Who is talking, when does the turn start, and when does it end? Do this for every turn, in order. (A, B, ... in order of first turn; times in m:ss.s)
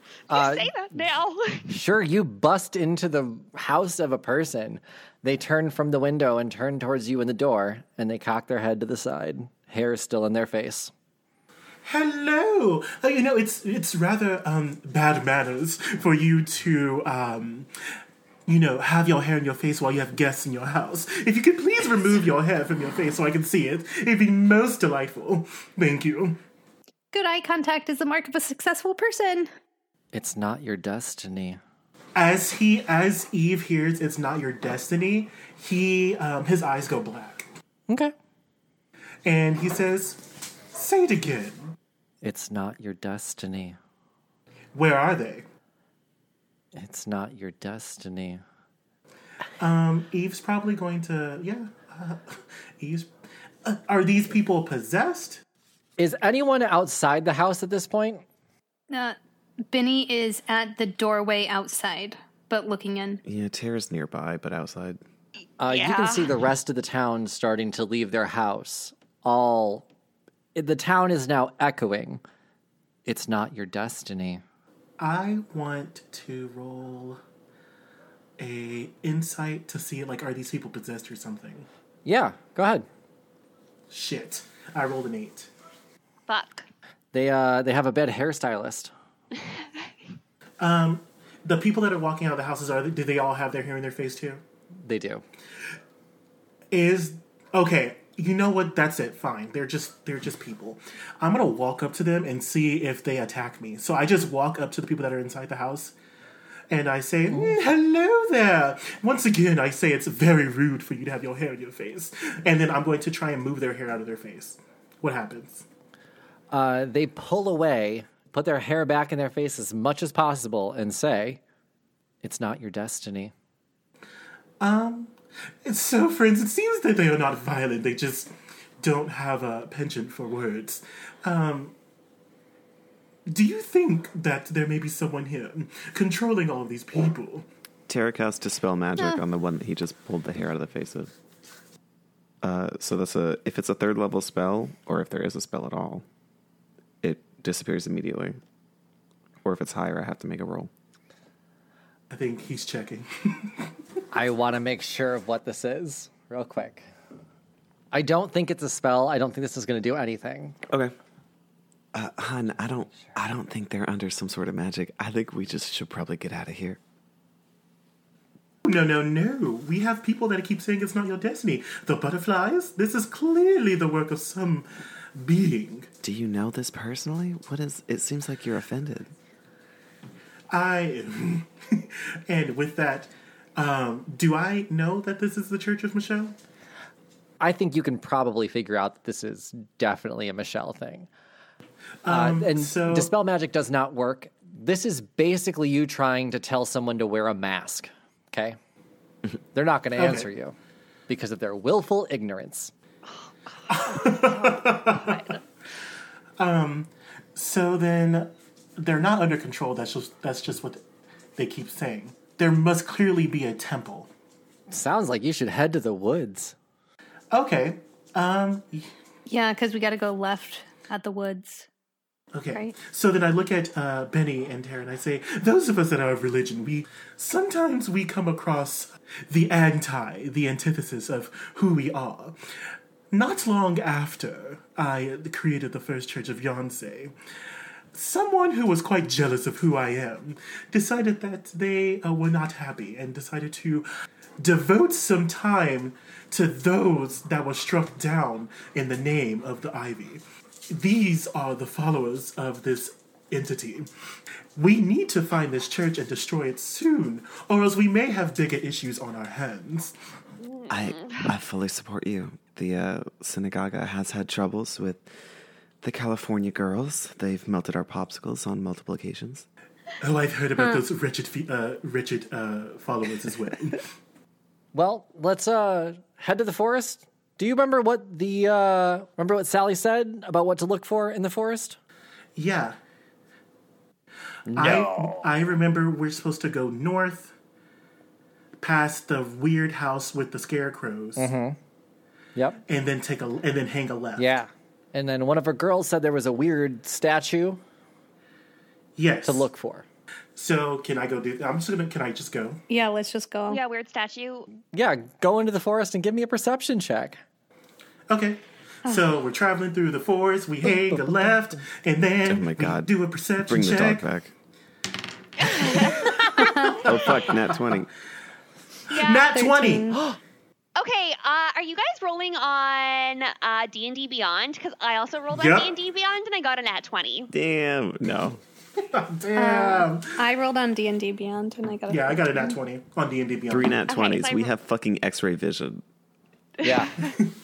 0:00.3-0:00.7 A
0:00.3-0:01.7 B
0:01.7-0:10.9 A
0:11.8-0:17.7 C
0:18.5-0:26.4 C
0:27.1-0:29.5 D
0:30.1-0:31.6 A
0:32.2-0:37.5 C
0:39.2-0:41.7 C
0:42.2-0:43.8 A
0:44.7-0:45.5 C
0:46.8-0:48.4 A
0:49.6-0:53.1 C
0:53.6-0:55.4 C
0:56.0-0:58.2 A
0:58.9-0:59.2 D
0:59.7-1:03.2 D
1:03.2-1:05.0 E
1:05.6-1:09.9 A
1:05.6-1:06.3 B
1:10.6-1:12.2 A
1:13.1-1:14.4 A
1:15.0-1:17.2 C
1:18.4-1:21.7 C
1:22.0-1:22.9 A
1:23.9-1:25.5 C
1:26.3-1:26.7 B
1:27.1-1:28.9 A
1:30.6-1:34.4 C
1:34.8-1:35.2 A
1:36.7-1:46.0 C
1:46.7-1:55.6 C
1:47.3-1:47.6 A
1:56.5-2:01.4 A
2:02.2-2:03.3 A
2:04.6-2:11.8 C
2:13.3-2:17.5 C
2:17.9-2:21.1 E
2:22.4-2:26.0 E
2:27.0-2:28.4 E
2:29.4-2:30.7 E
2:32.1-2:33.7 C
2:34.1-2:36.9 A
2:37.9-2:40.6 A
2:41.9-2:46.8 E
2:48.6-2:55.9 C
2:56.0-2:59.1 E
3:00.5-3:06.4 C
3:07.4-3:11.1 A
3:12.0-3:13.1 C
3:12.1-3:18.6 A
3:19.6-3:20.6 A
3:20.0-3:20.3 C
3:21.1-3:22.7 A
3:23.1-3:25.4 B
3:23.7-3:25.4 C
3:26.4-3:30.8 C
3:31.4-3:34.1 C
3:34.7-3:36.6 A
3:37.3-3:38.9 C
3:39.3-3:41.7 D
3:42.3-3:52.4 C
3:53.1-3:57.1 C
3:57.9-4:03.9 C
4:04.4-4:13.9 C
4:14.6-4:20.0 C
4:20.4-4:21.3 B
4:20.7-4:25.1 E
4:25.8-4:29.5 E
4:30.0-4:33.9 C
4:34.7-4:41.8 A
4:42.4-4:42.8 C
4:44.5-4:45.3 A
4:44.5-4:47.3 C
4:48.6-4:51.3 C
4:51.2-4:51.6 A
4:52.4-4:52.6 A
4:52.7-4:54.3 C
4:54.2-4:57.6 A
4:59.0-4:59.5 C
4:59.2-4:59.9 A
5:00.4-5:02.6 C
5:02.7-5:03.6 D
5:03.5-5:04.5 B
5:04.7-5:07.2 A
5:08.1-5:14.1 C
5:10.7-5:11.4 A
5:12.3-5:12.9 E
5:13.4-5:14.3 E
5:15.4-5:16.2 B
5:15.4-5:17.6 C
5:16.2-5:16.9 D
5:16.8-5:17.9 E
5:18.9-5:19.3 B
5:18.9-5:20.0 C
5:19.3-5:20.0 D
5:20.8-5:27.3 B
5:25.3-5:25.8 C
5:27.3-5:28.4 E
5:28.8-5:30.2 C
5:29.3-5:32.6 D
5:31.9-5:33.8 C
5:33.5-5:35.8 E
5:33.9-5:34.5 B
5:36.6-5:37.0 A
5:36.8-5:37.1 B